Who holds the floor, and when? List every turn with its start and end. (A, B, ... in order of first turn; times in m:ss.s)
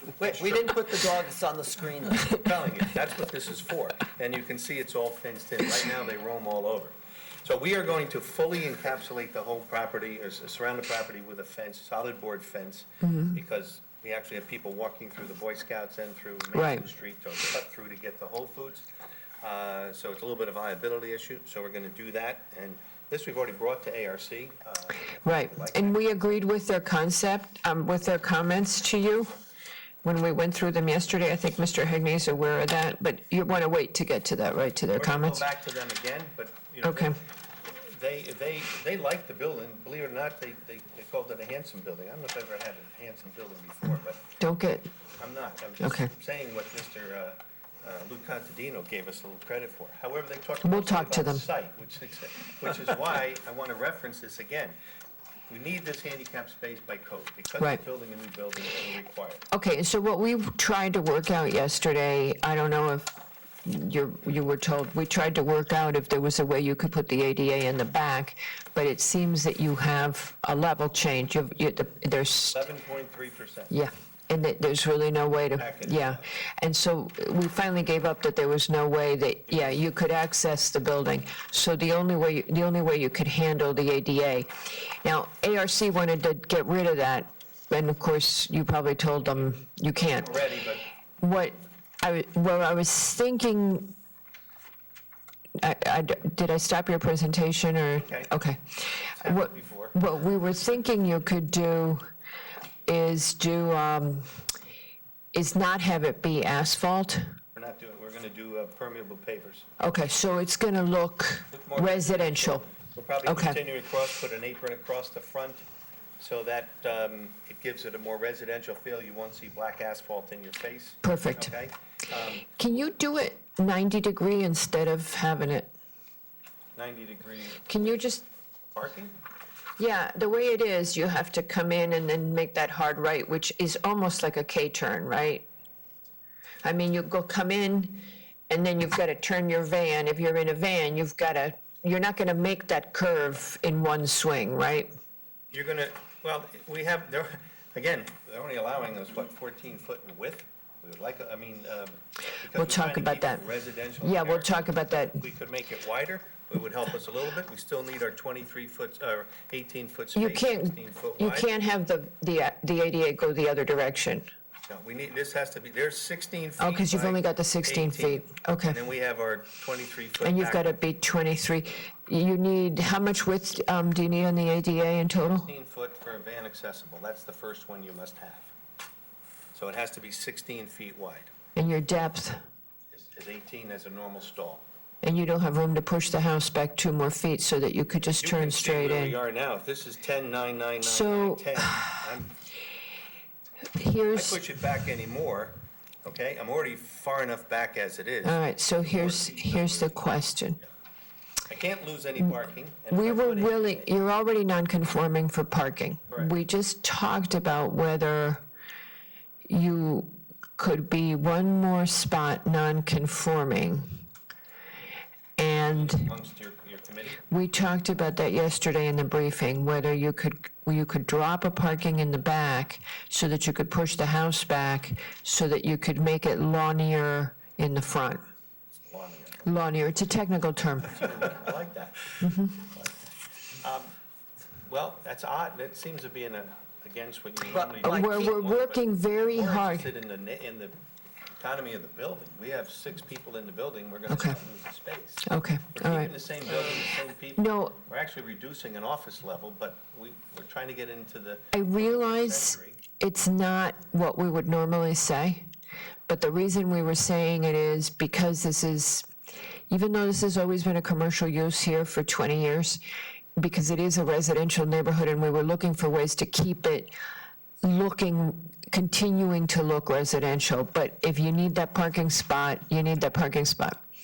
0:00.2-0:02.3 A
0:00.2-0:00.8 B
0:02.2-0:18.9 B
0:13.0-0:13.4 C
0:16.5-0:16.8 C
0:19.4-0:26.1 B
0:25.2-0:29.3 C
0:30.0-0:35.4 C
0:34.9-0:44.3 B
0:36.8-0:37.1 C
0:44.4-0:44.9 C
0:45.2-0:54.8 B
0:45.8-0:46.1 C
0:50.6-0:51.4 C
0:55.5-0:59.4 B
0:59.5-1:03.1 C
1:03.6-1:12.6 C
1:12.5-1:13.8 B
1:13.7-1:30.4 C
1:15.5-1:16.2 B
1:19.5-1:19.8 B
1:30.0-1:30.9 B
1:31.2-1:33.9 C
1:35.6-1:38.6 C
1:37.9-1:38.3 B
1:39.2-1:40.0 B
1:39.2-1:42.0 C
1:42.8-1:44.4 C
1:45.3-1:47.4 C
1:47.5-1:49.7 B
1:49.8-1:52.7 C
1:51.5-1:55.7 B
1:53.2-1:53.6 C
1:56.2-2:02.5 B
2:01.0-2:01.5 C
2:02.6-2:05.7 C
2:06.8-2:08.0 B
2:07.7-2:08.2 C
2:08.7-2:09.1 B
2:09.8-2:15.4 C
2:16.6-2:24.9 C
2:25.5-2:41.5 B
2:32.5-2:33.4 C
2:34.0-2:35.2 C
2:40.1-2:44.3 C
2:44.7-2:50.8 B
2:46.6-2:48.8 C
2:50.2-2:55.5 C
2:55.2-2:58.5 B
2:59.5-3:01.3 B
3:01.6-3:02.4 C
3:02.9-3:04.6 B
3:05.0-3:09.2 C
3:08.1-3:12.4 B
3:10.8-3:12.0 C
3:13.8-3:14.4 C
3:14.1-3:20.1 B
3:18.2-3:20.6 C
3:21.4-3:23.9 B
3:22.9-3:28.4 C
3:29.5-3:34.0 C
3:35.4-3:36.1 C
3:35.5-3:37.2 B
3:37.3-3:48.2 C
3:48.8-3:49.5 B
3:49.4-3:51.3 C
3:50.9-3:53.0 B
3:52.2-3:52.5 C
3:53.6-3:53.9 B
3:54.6-4:00.8 B
3:57.5-3:58.4 A
3:57.8-3:59.9 C
4:01.4-4:12.8 B
4:04.1-4:04.3 C
4:05.2-4:06.1 C
4:07.4-4:07.8 C
4:11.5-4:15.4 C
4:16.1-4:19.1 C
4:19.7-4:22.8 C
4:23.4-4:26.9 C
4:27.6-4:33.8 C